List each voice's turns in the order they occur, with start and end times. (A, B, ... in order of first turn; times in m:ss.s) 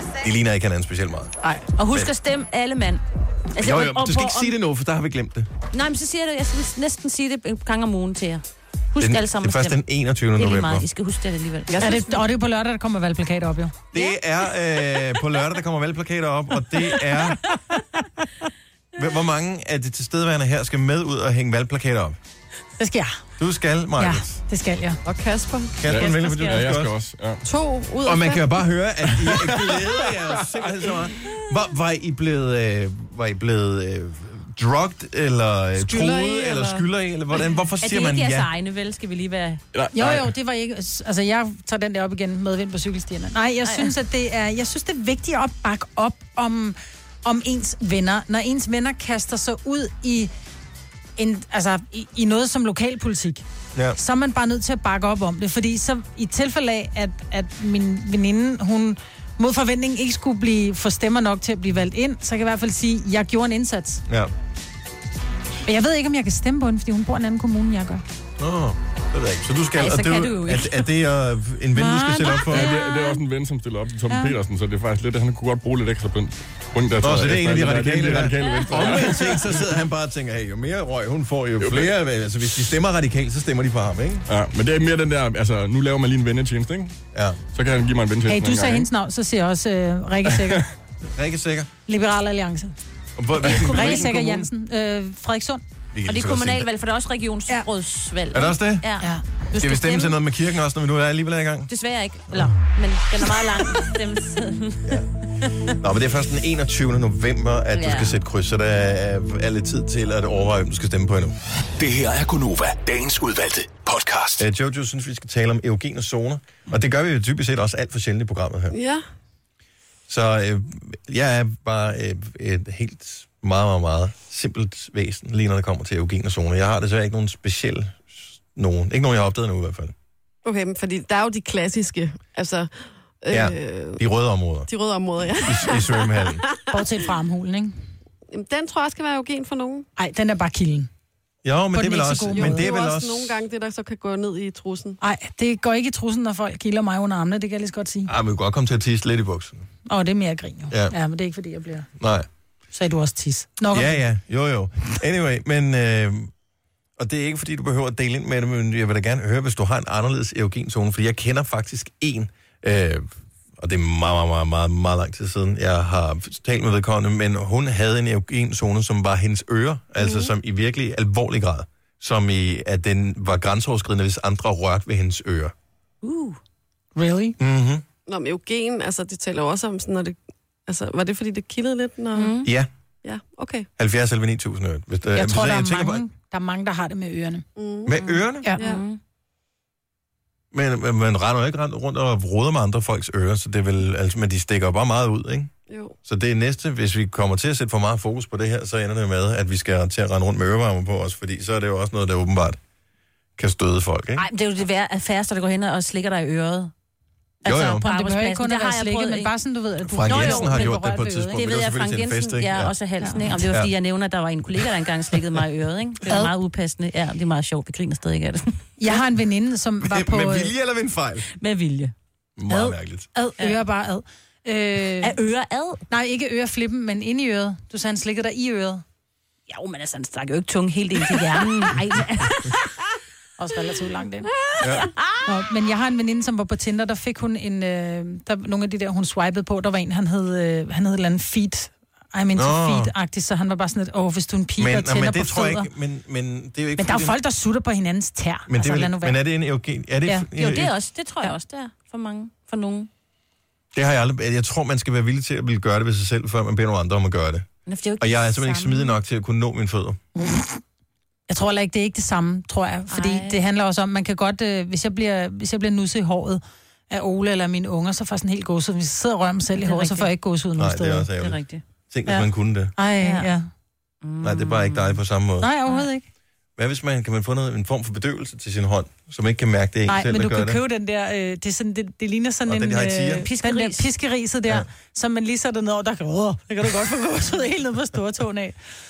0:00.2-0:01.3 A
0:01.8-0:03.0 B
0:03.5-0:04.5 B
0:03.6-0:05.5 A
0:05.7-0:09.8 B
0:09.0-0:10.9 A
0:10.4-0:12.1 B
0:11.7-0:12.2 C
0:11.8-0:13.7 D
0:13.9-0:17.4 A
0:13.9-0:14.2 B
0:17.2-0:18.4 D
0:18.9-0:22.2 A
0:22.8-0:23.1 D
0:23.4-0:24.4 A
0:24.0-0:25.0 D
0:25.0-0:25.8 C
0:25.8-0:26.9 A
0:25.8-0:27.4 E
0:26.2-0:26.5 D
0:27.4-0:28.5 C
0:28.0-0:38.5 A
0:29.3-0:29.8 E
0:35.8-0:36.8 C
0:37.8-0:39.6 B
0:39.7-0:40.3 E
0:39.9-0:50.3 D
0:43.6-0:43.9 B
0:51.2-0:53.4 D
0:53.9-1:04.0 D
1:04.1-1:04.3 A
1:05.6-1:08.0 D
1:08.4-1:12.7 A
1:09.7-1:10.9 B
1:11.8-1:13.2 D
1:12.5-1:19.7 E
1:14.1-1:14.3 D
1:17.0-1:24.3 A
1:21.6-1:21.9 E
1:24.3-1:27.0 E
1:27.1-1:27.4 A
1:27.5-1:28.9 E
1:28.3-1:30.7 D
1:30.3-1:30.6 E
1:31.1-1:31.7 A
1:31.9-1:32.8 D
1:33.2-1:34.5 A
1:33.4-1:35.6 D
1:35.9-1:36.7 A
1:36.0-1:40.2 B
1:38.3-1:38.9 A
1:39.6-1:41.7 A
1:41.7-1:45.7 B
1:45.7-1:51.4 A
1:47.7-1:48.2 B
1:51.8-1:54.4 F
1:54.4-1:58.8 A
1:58.7-1:59.0 C
2:00.1-2:09.9 A
2:10.4-2:14.0 C
2:13.3-2:14.7 A
2:14.7-2:16.8 C
2:15.4-2:16.4 A
2:16.7-2:17.8 D
2:18.3-2:19.9 C
2:20.0-2:20.9 D
2:21.4-2:23.4 A
2:21.7-2:22.7 D
2:22.3-2:25.0 C
2:25.0-2:28.1 D
2:28.0-2:29.6 A
2:29.9-2:31.9 D
2:30.7-2:30.9 A
2:32.0-2:32.3 A
2:32.7-2:34.0 D
2:33.7-2:36.3 A
2:37.0-2:55.5 A
2:50.0-2:50.3 C
2:56.0-2:56.4 B
2:57.0-2:57.4 D
2:57.4-2:57.8 A
2:58.1-3:02.5 C
3:02.1-3:02.5 B
3:02.4-3:02.7 A
3:03.0-3:03.7 C
3:03.8-3:06.0 A
3:05.1-3:07.4 D
3:07.6-3:08.0 C
3:07.8-3:08.5 A
3:08.0-3:09.0 B
3:08.6-3:08.8 C
3:10.5-3:15.5 A
3:15.7-3:15.9 C
3:16.0-3:22.6 A
3:23.4-3:24.3 A
3:24.2-3:26.7 B
3:27.4-3:27.8 A
3:27.4-3:29.3 B
3:27.8-3:30.7 D
3:29.9-3:32.7 A
3:30.0-3:38.9 B
3:33.0-3:33.4 D
3:36.0-3:36.3 D
3:38.8-3:40.5 D
3:39.8-3:41.3 A
3:41.3-3:41.9 B
3:42.4-3:43.1 A
3:42.5-3:45.2 D
3:45.0-3:45.8 B
3:45.9-3:48.8 D
3:49.5-3:52.8 B
3:51.0-3:51.7 D
3:53.4-3:54.3 D
3:54.5-3:55.2 B
3:54.6-3:54.9 A
3:55.2-4:05.7 D
4:02.3-4:02.9 A
4:04.6-4:07.1 A
4:06.8-4:09.2 D
4:08.5-4:10.7 A
4:10.3-4:12.9 B
4:13.7-4:17.5 A
4:17.7-4:18.9 B
4:18.0-4:20.0 A
4:20.2-4:20.6 D
4:21.3-4:31.1 D
4:22.9-4:23.4 B
4:29.6-4:30.1 B
4:30.6-4:31.4 A
4:31.2-4:32.2 B
4:31.9-4:32.7 A
4:32.8-4:33.5 D
4:33.0-4:33.3 B
4:34.0-4:35.0 B
4:34.2-4:35.5 A
4:35.4-4:36.0 D
4:36.6-4:40.6 A
4:39.9-4:48.6 D
4:42.4-4:43.3 A
4:43.3-4:43.9 B